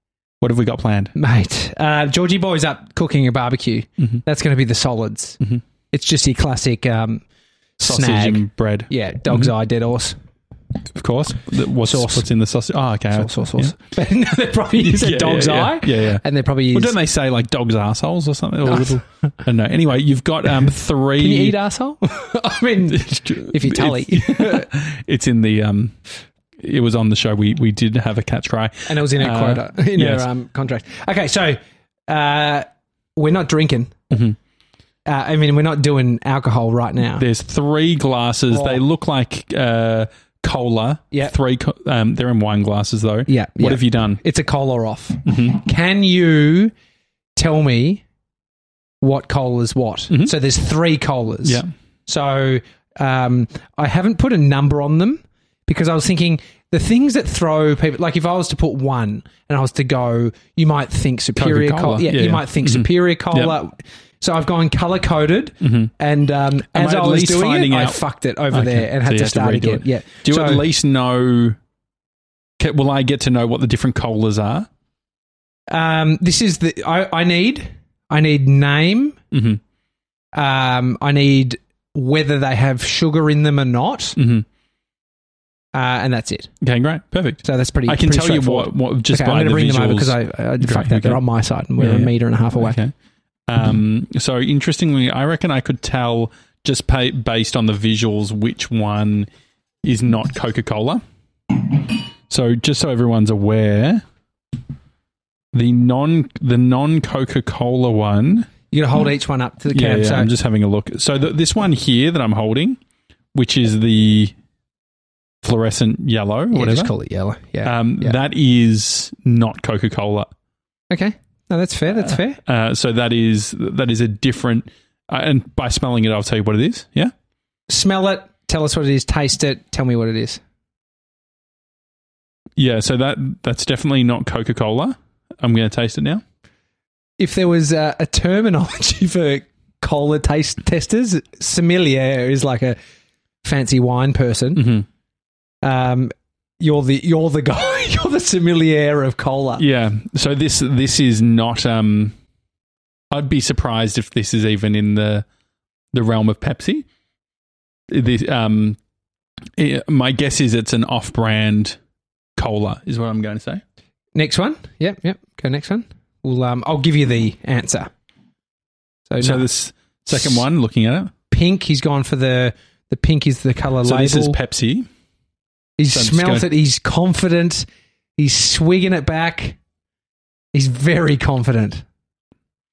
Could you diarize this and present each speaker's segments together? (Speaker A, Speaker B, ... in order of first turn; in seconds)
Speaker A: 0.4-1.1, 7.9-9.5, 10.9-13.7, 14.8-21.6, 22.9-25.9, 26.6-30.2, 34.1-34.4, 37.1-44.2, 45.3-45.5, 51.4-51.7, 61.4-63.5, 65.6-65.9, 66.7-71.6, 72.6-74.7, 79.3-79.6, 84.2-84.5, 86.6-91.2, 91.8-92.9, 93.5-99.3, 99.8-104.0, 105.5-108.5, 109.7-112.8, 113.3-114.3, 115.4-116.9, 117.7-120.3, 121.9-127.1, 132.6-136.2, 144.6-144.9, 149.6-152.2, 153.1-155.2, 155.9-156.9, 157.9-158.8, 159.6-161.8, 162.4-163.6, 169.2-171.1, 173.8-174.9, 175.9-176.5
Speaker B: 1.2-5.4, 5.9-7.2, 7.8-10.2, 11.8-12.3, 13.1-16.9, 18.7-19.0, 21.2-24.7, 28.9-33.9, 35.0-37.2, 38.5-38.8, 43.3-46.7, 47.4-48.0, 49.0-70.7, 75.7-79.2, 80.3-84.2, 85.7-86.5, 87.4-92.8, 108.7-110.3, 116.5-118.2, 120.9-122.4, 127.7-130.4, 137.2-142.8, 143.4-144.8, 145.6-149.7, 164.2-167.9, 169.1-169.5, 170.1-170.4, 171.3-174.4, 175.8-177.7, 178.2-179.6, 180.5-181.8